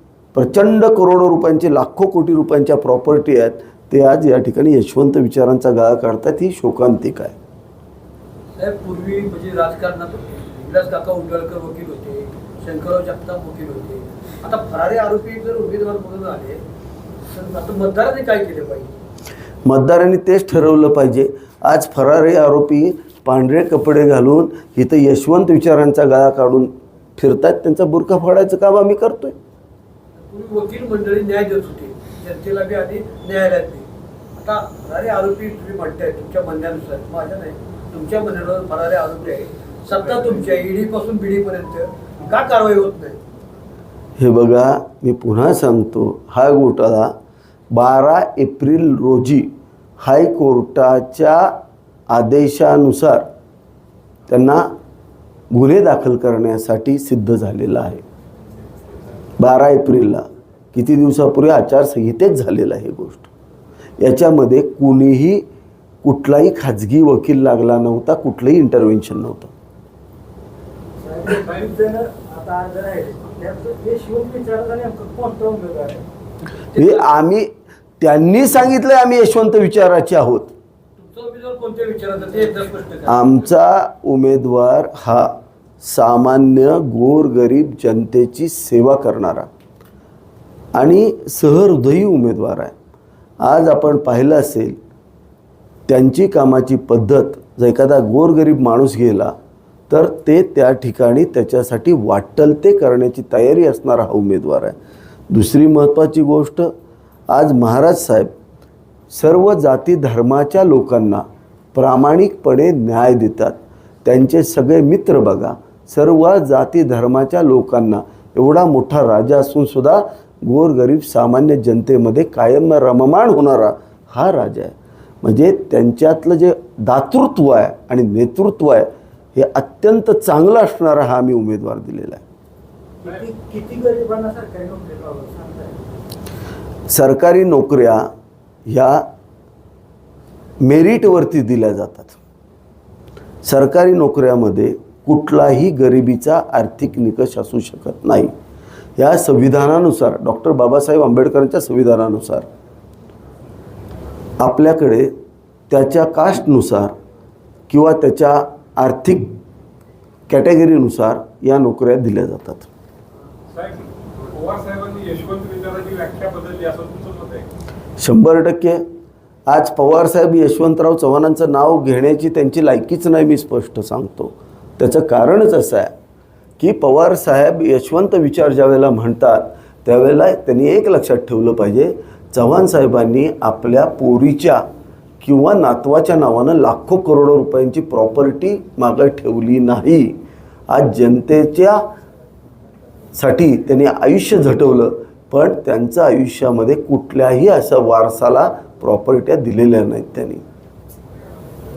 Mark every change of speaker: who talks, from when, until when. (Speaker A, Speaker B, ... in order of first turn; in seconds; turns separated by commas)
Speaker A: 0.3-7.3, Speaker B: 8.6-16.6, Speaker B: 17.3-18.9, Speaker A: 19.6-29.4, Speaker B: 30.2-43.2, Speaker A: 44.2-47.1, Speaker A: 47.7-51.5, Speaker A: 52.1-53.3, Speaker A: 54.3-54.7, Speaker A: 55.5-58.0, Speaker A: 59.4-63.3, Speaker A: 64.0-65.4, Speaker A: 66.0-69.5, Speaker B: 71.0-76.1, Speaker B: 76.7-77.1, Speaker A: 76.7-80.5, Speaker B: 81.0-83.2, Speaker A: 83.1-89.5, Speaker A: 90.7-92.7, Speaker A: 93.4-94.8, Speaker A: 95.9-99.3, Speaker A: 99.9-104.8, Speaker A: 105.3-106.7, Speaker A: 107.3-108.3, Speaker A: 109.1-132.2, Speaker B: 133.0-135.8, Speaker A: 136.9-138.1, Speaker A: 138.7-139.1, Speaker A: 140.6-142.2, Speaker A: 143.4-148.3, Speaker A: 149.0-152.5, Speaker A: 154.4-155.2, Speaker A: 155.7-156.9, Speaker A: 157.7-159.4, Speaker A: 160.3-162.7, Speaker C: 163.5-167.5, Speaker A: 168.0-168.8, Speaker A: 169.5-175.9, Speaker A: 176.6-184.7, Speaker A: 185.2-191.8, Speaker A: 193.1-200.4